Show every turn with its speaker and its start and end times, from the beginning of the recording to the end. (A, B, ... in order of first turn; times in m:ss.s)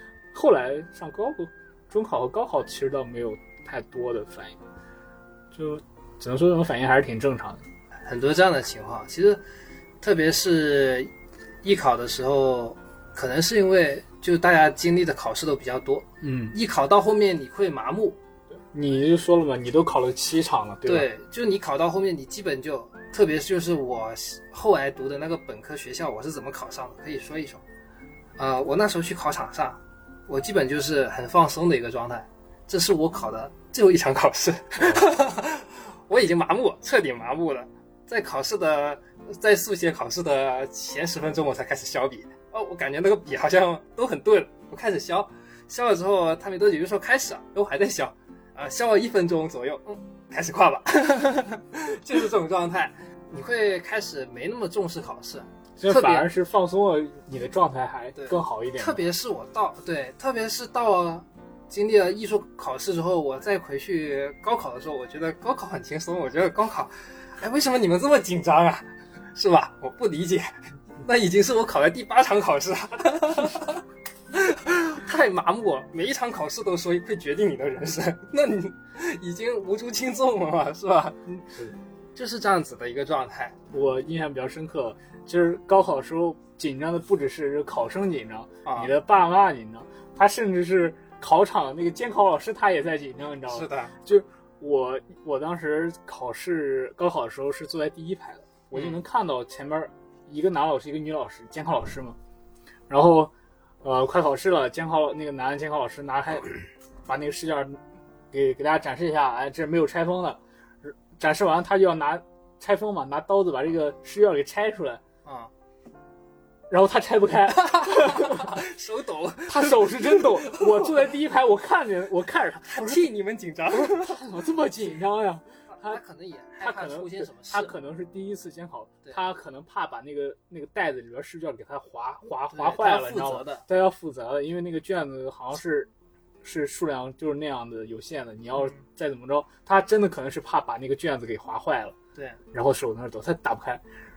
0:00.3-0:04.6 A
0:05.5-0:07.6 A
0:08.0-0:09.4 B
0:10.0-0:11.1 B
0:11.6-0:18.2 B
0:16.2-0:16.6 A
0:18.6-0:21.1 A
0:20.8-0:27.6 B
0:28.4-0:56.3 B
0:34.8-0:35.1 A
0:55.8-0:59.0 A
0:58.2-1:10.5 B
1:11.0-1:21.4 B
1:21.4-1:21.8 A
1:22.2-1:23.6 B
1:23.7-1:42.2 A
1:28.6-1:28.9 B
1:33.5-1:33.9 B
1:38.7-1:39.0 B
1:42.9-1:43.3 A
1:43.8-1:47.8 A
1:48.3-1:55.0 A
1:55.2-1:55.5 B
1:56.7-1:58.6 A
1:57.5-2:00.9 B
1:59.5-2:03.1 A
2:02.6-2:04.2 B
2:03.7-2:06.0 A
2:05.8-2:07.7 B
2:06.6-2:15.9 A
2:12.5-2:13.6 B
2:16.4-2:22.0 A
2:18.6-2:18.8 B
2:22.5-2:23.8 A